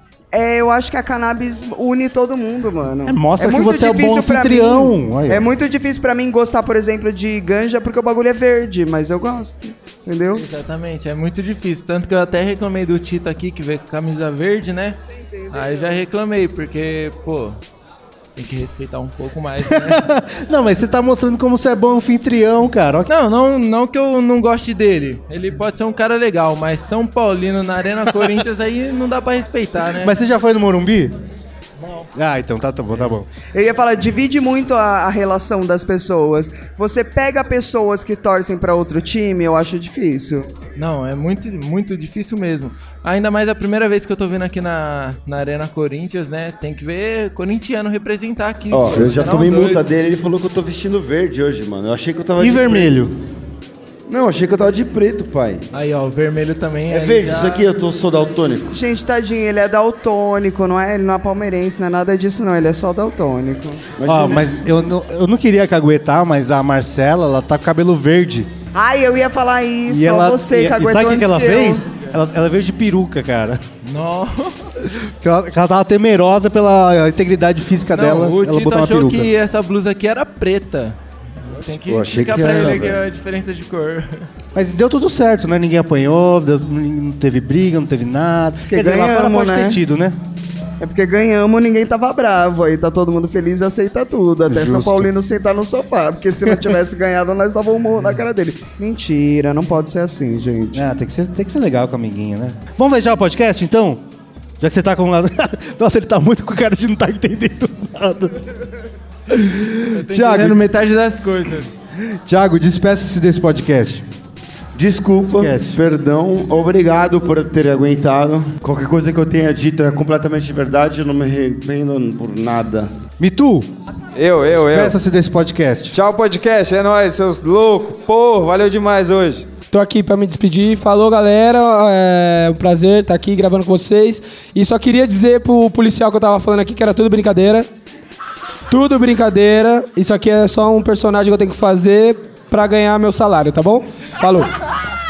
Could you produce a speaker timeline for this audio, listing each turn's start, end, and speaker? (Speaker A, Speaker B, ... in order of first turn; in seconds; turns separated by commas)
Speaker A: 0.3-10.4, Speaker B: 3.1-5.5, Speaker C: 10.3-15.0, Speaker A: 15.1-16.0, Speaker C: 15.5-17.6, Speaker C: 18.4-20.0, Speaker B: 19.6-23.1, Speaker C: 23.1-30.1, Speaker B: 28.1-28.4, Speaker B: 29.9-31.1, Speaker B: 32.1-33.3, Speaker A: 33.5-40.5, Speaker C: 40.8-49.8, Speaker D: 48.7-52.9, Speaker B: 52.4-53.2, Speaker D: 54.1-55.6, Speaker C: 55.7-57.6, Speaker D: 56.9-58.7, Speaker A: 58.7-63.9, Speaker D: 64.0-64.6, Speaker B: 64.0-68.5, Speaker A: 68.7-71.9, Speaker B: 69.9-73.6, Speaker C: 73.8-74.6, Speaker B: 74.8-79.3, Speaker C: 77.9-81.0, Speaker C: 81.5-84.3, Speaker D: 81.7-83.0, Speaker B: 84.5-90.2, Speaker A: 88.7-89.8, Speaker A: 90.8-100.8, Speaker B: 94.5-95.1, Speaker B: 100.7-104.0, Speaker B: 104.6-108.5, Speaker B: 109.3-110.7, Speaker C: 109.9-111.7, Speaker B: 112.0-114.0, Speaker D: 114.8-122.9, Speaker B: 115.4-115.8, Speaker B: 123.2-123.7, Speaker E: 124.2-125.0, Speaker B: 124.6-126.0, Speaker E: 125.9-129.5, Speaker F: 129.7-137.7, Speaker F: 138.7-144.5